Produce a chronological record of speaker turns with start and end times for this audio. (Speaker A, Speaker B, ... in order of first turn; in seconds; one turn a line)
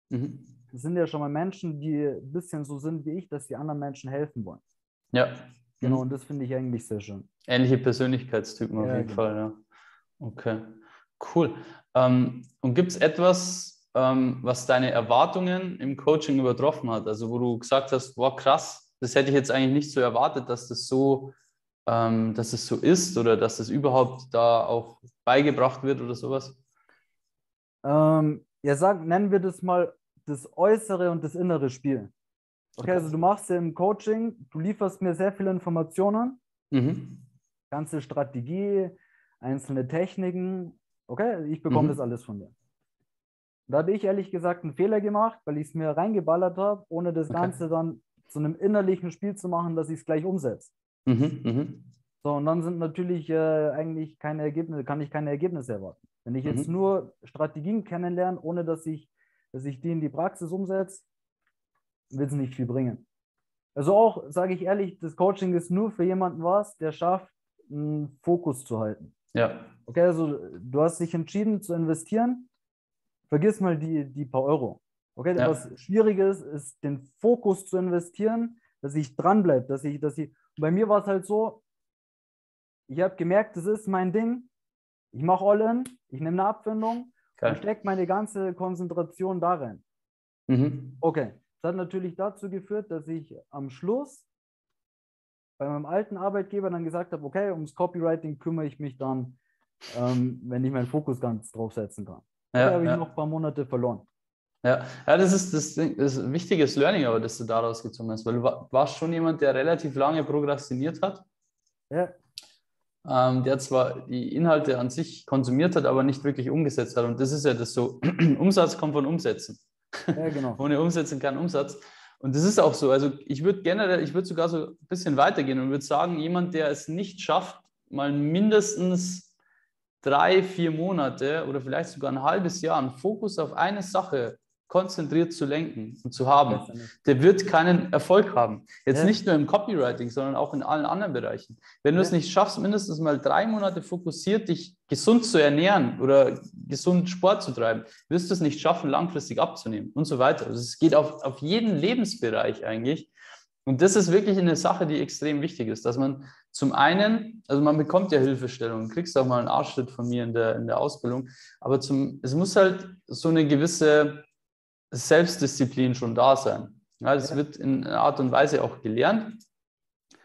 Speaker A: 0.1-0.5
Speaker B: 0.7-4.6
Speaker A: 5.1-6.0
Speaker B: 5.8-7.3
Speaker A: 7.5-9.6
Speaker B: 8.8-9.2
Speaker A: 10.2-26.6
Speaker B: 27.8-32.1
Speaker B: 32.8-36.4
Speaker A: 36.7-37.2
Speaker B: 37.7-42.5
Speaker A: 41.7-42.0
Speaker B: 43.7-50.7
Speaker A: 47.3-47.5
Speaker A: 51.0-51.9
Speaker B: 52.2-61.0
Speaker B: 62.1-63.0
Speaker B: 63.7-69.1
Speaker A: 69.3-69.7
Speaker B: 69.9-72.5
Speaker B: 73.3-81.6
Speaker B: 82.9-84.5
Speaker B: 85.1-89.8
Speaker A: 90.5-91.0
Speaker B: 91.0-94.3
Speaker B: 95.6-99.4
Speaker B: 99.9-104.0
Speaker A: 102.5-103.0
Speaker A: 104.6-111.2
Speaker A: 113.0-129.3
Speaker B: 120.1-120.6
Speaker A: 130.0-153.1
Speaker B: 136.5-136.9
Speaker A: 153.7-164.2
Speaker A: 164.9-169.4